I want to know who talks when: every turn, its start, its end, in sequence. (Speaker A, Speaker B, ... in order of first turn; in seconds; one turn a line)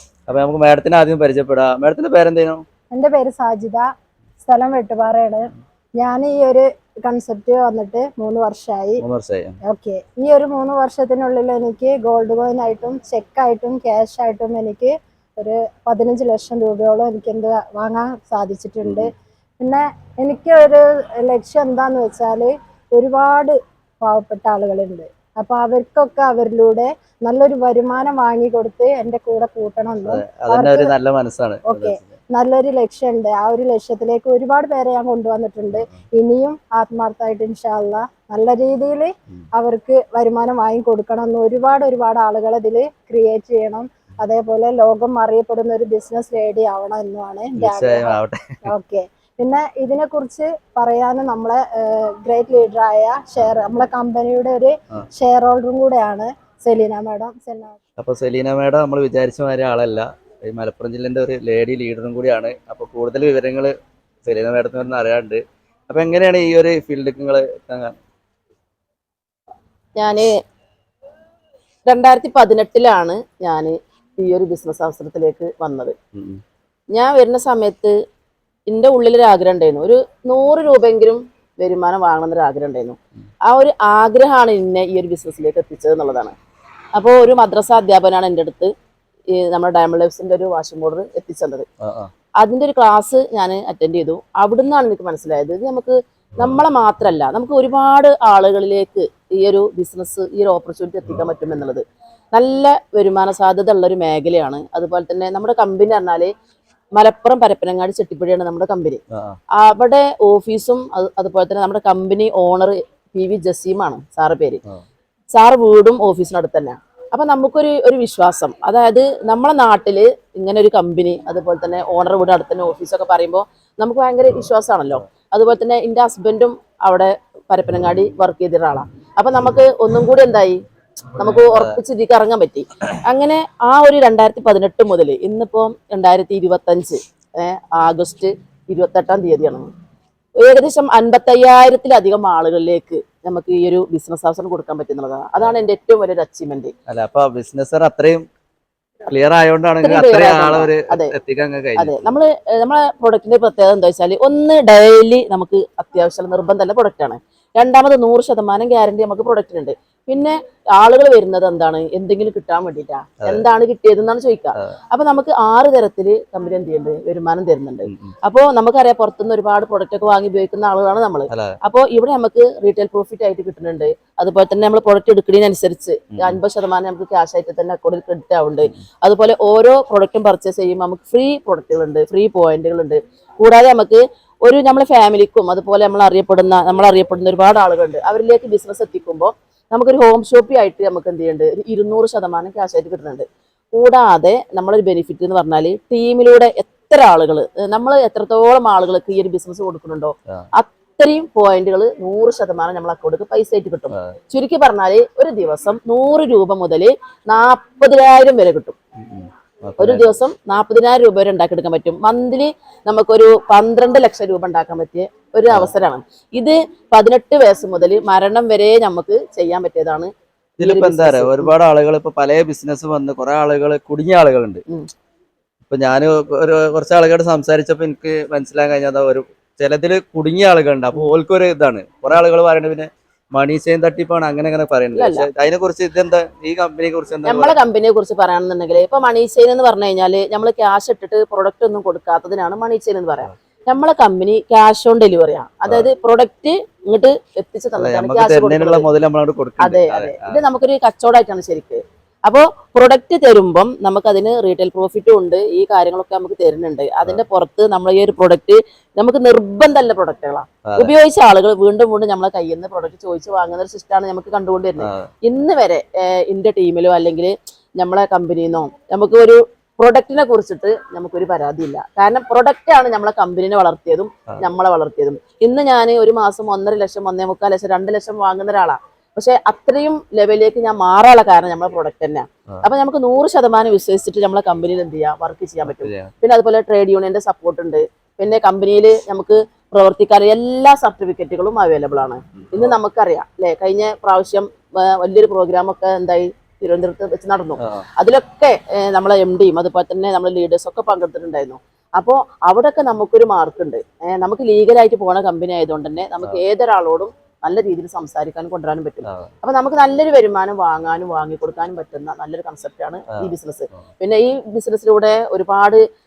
Speaker A: 0.3-2.6
Speaker B: 2.9-3.9
Speaker B: 4.4-9.0
Speaker A: 9.0-9.6
Speaker B: 9.6-30.9
Speaker A: 18.8-19.1
Speaker A: 30.0-32.1
Speaker B: 31.6-57.8
Speaker A: 35.7-36.0
Speaker A: 47.6-48.6
Speaker A: 58.0-63.7
Speaker A: 64.2-68.0
Speaker C: 70.0-70.3
Speaker C: 71.8-75.9
Speaker A: 76.1-76.4
Speaker C: 76.9-77.9
Speaker C: 78.7-86.3
Speaker C: 86.9-88.7
Speaker C: 89.3-91.7
Speaker A: 91.8-92.1
Speaker C: 92.4-106.3
Speaker C: 106.9-109.0
Speaker C: 109.6-114.6
Speaker C: 115.3-130.6
Speaker C: 131.2-139.7
Speaker A: 131.2-131.7
Speaker C: 140.4-146.7
Speaker A: 146.9-148.2
Speaker A: 149.1-152.1
Speaker C: 149.8-151.1
Speaker C: 151.8-208.7
Speaker A: 167.9-168.1
Speaker A: 171.3-171.6
Speaker A: 209.0-210.1
Speaker C: 209.8-220.1
Speaker A: 220.6-224.6
Speaker C: 220.6-221.5
Speaker A: 225.7-237.5
Speaker C: 234.9-235.3
Speaker C: 237.2-248.8
Speaker A: 247.8-250.4
Speaker C: 249.6-315.8
Speaker A: 260.6-260.9
Speaker A: 264.8-265.1
Speaker A: 285.6-286.1
Speaker A: 292.4-292.7
Speaker A: 297.6-297.8